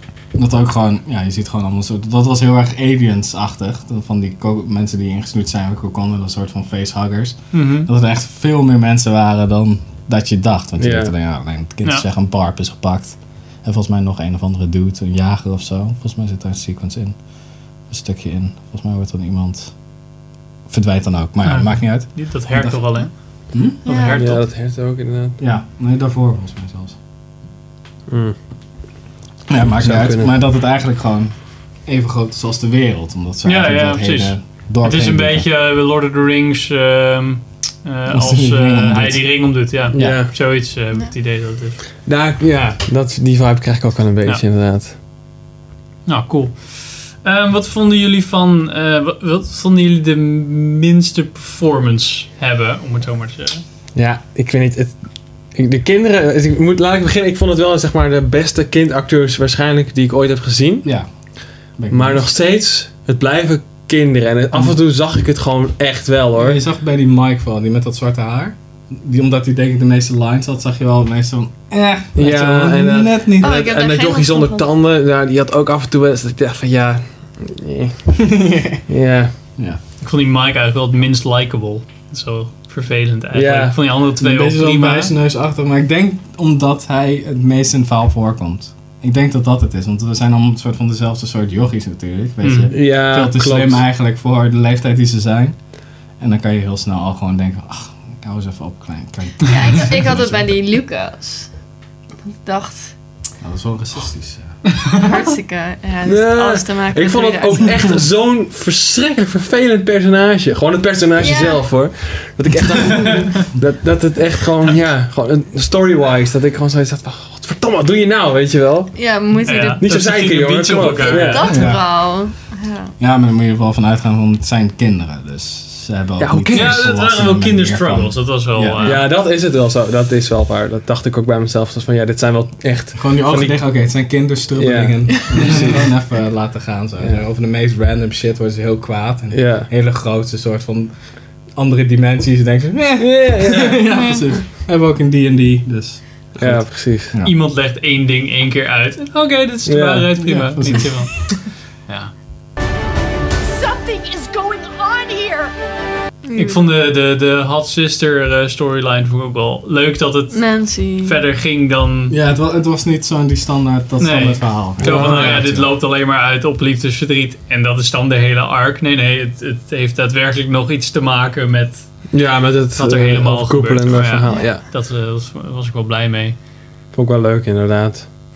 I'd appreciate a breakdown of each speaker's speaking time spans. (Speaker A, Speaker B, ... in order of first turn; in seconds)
Speaker A: 0.3-17.2, 17.8-19.8, 20.7-23.8, 25.4-27.0, 29.5-35.5, 38.1-40.2, 60.8-61.1, 61.7-62.3, 66.3-73.5, 78.2-78.8, 84.2-100.6, 103.4-104.8, 121.5-122.0, 123.0-129.0, 133.0-147.4, 150.2-151.1, 162.1-165.8
Speaker B: 7.5-7.9, 21.4-24.4, 33.4-41.8, 46.1-53.6, 80.0-85.1, 92.4-92.7, 119.4-121.5, 126.5-129.1, 147.2-152.1, 156.3-162.2, 164.0-172.2, 172.8-176.4
Speaker C: 10.8-11.1, 24.1-25.4, 28.1-28.4, 29.8-30.3, 39.9-40.3, 42.0-45.0, 54.0-55.0, 55.5-60.9, 61.9-66.6, 72.2-78.4, 78.9-79.3, 83.3-83.8, 92.7-93.8, 106.0-119.1, 119.8-121.6, 126.2-126.9, 128.8-133.8, 134.6-135.9, 139.3-139.7, 143.0-143.8, 146.4-147.1, 149.7-150.1, 164.8-165.5, 172.1-174.6, 176.9-178.1
Speaker D: 23.9-24.2, 73.4-74.7, 99.5-101.5, 102.4-103.0, 105.0-107.8, 111.2-111.7, 118.9-119.8, 121.0-122.9, 143.9-144.2, 156.2-156.6, 160.3-161.2
Speaker E: 153.4-155.5